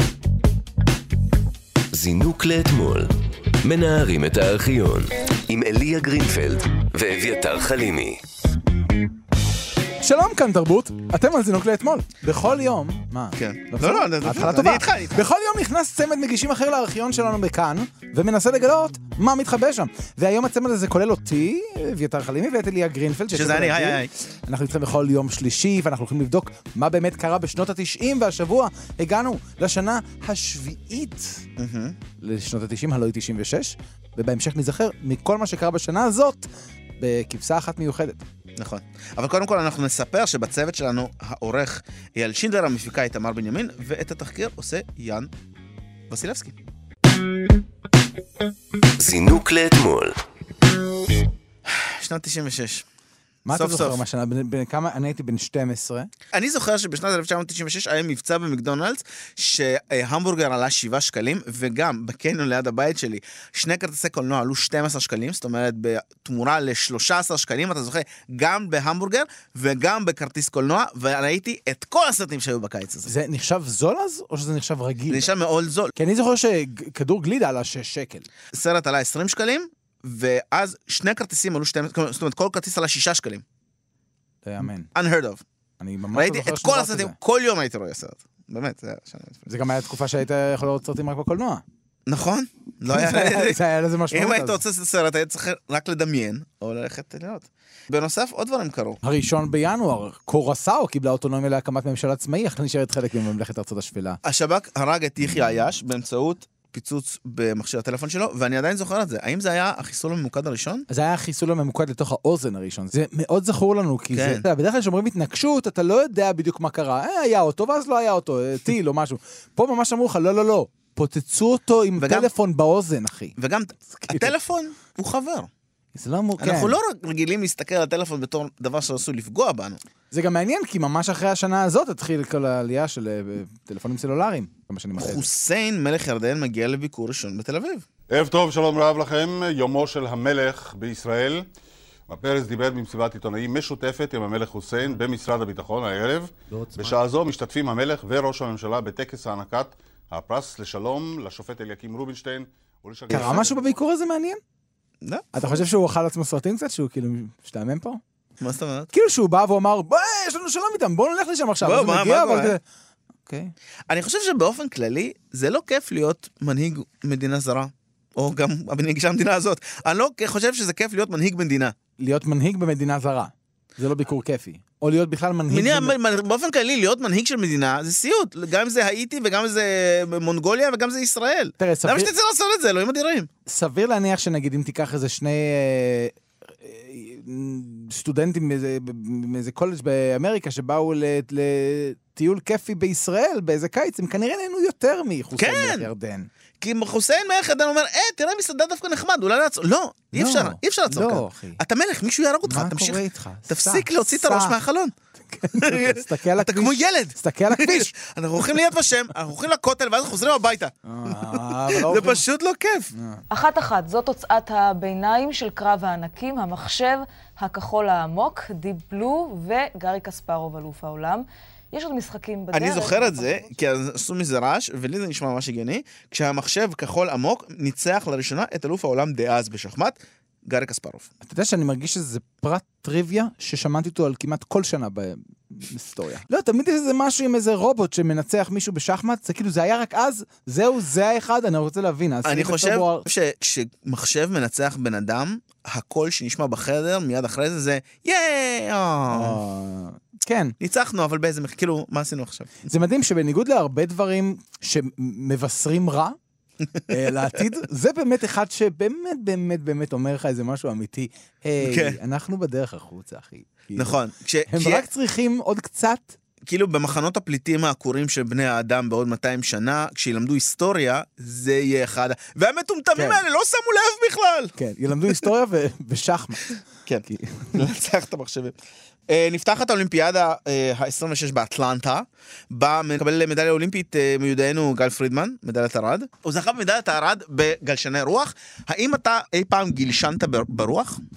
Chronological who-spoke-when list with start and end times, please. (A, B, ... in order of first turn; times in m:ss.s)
0:01.9-0:03.1 A
0:03.6-0:08.2 A
0:10.0-0:31.4 B
0:13.4-0:15.2 C
0:23.3-0:24.1 C
0:31.6-0:32.0 C
0:32.2-0:36.5 B
0:37.0-0:38.2 B
0:38.6-0:45.3 C
0:46.1-0:46.6 C
0:49.0-0:50.2 A
0:51.7-0:52.9 C
0:53.5-0:56.1 B
0:53.5-0:54.0 C
0:56.3-1:13.1 C
1:13.1-1:15.3 B
1:15.1-1:15.9 C
1:16.0-1:18.3 B
1:18.5-1:23.4 C
1:24.4-1:24.9 B
1:24.9-1:25.4 C
1:25.8-1:27.2 B
1:26.2-1:29.4 C
1:29.5-1:31.6 B
1:32.1-1:33.6 C
1:32.9-1:34.6 B
1:34.1-1:39.0 C
1:39.0-1:44.2 B
1:44.2-1:50.9 C
1:50.9-2:03.3 B
1:54.1-1:54.4 C
2:02.0-2:02.3 C
2:03.4-2:05.5 C
2:04.0-2:04.3 B
2:06.0-2:06.8 B
2:06.4-2:09.8 C
2:10.1-2:15.2 B
2:15.0-2:17.9 C
2:18.1-2:21.5 D
2:22.1-2:33.6 D
2:33.1-2:34.4 B
2:35.3-2:38.0 B
2:38.4-2:38.9 C
2:38.9-2:42.6 B
2:41.6-2:42.6 C
2:43.3-2:43.5 B
2:43.9-2:51.7 C
2:52.0-2:55.9 B
2:55.5-3:03.3 C
3:01.6-3:02.1 B
3:03.5-3:16.3 B
3:15.4-3:15.9 C
3:16.6-3:24.9 C
3:20.1-3:21.6 B
3:22.5-3:24.5 B
3:25.3-3:27.9 B
3:25.5-3:30.7 C
3:30.9-3:32.2 B
3:31.3-3:32.9 C
3:33.0-3:33.2 B
3:33.3-3:43.5 E
3:42.5-3:51.1 C
3:51.3-4:03.0 B
4:02.2-4:09.4 C
4:09.1-4:10.6 B
4:10.6-4:12.5 C
4:12.7-4:16.2 B
4:16.9-4:24.0 B
4:21.6-4:22.0 C
4:23.8-4:24.9 C
4:24.5-4:26.2 B
4:26.5-4:34.5 C
4:34.6-4:36.5 B
4:36.9-4:38.5 C
4:37.1-4:37.6 B
4:39.1-4:51.0 C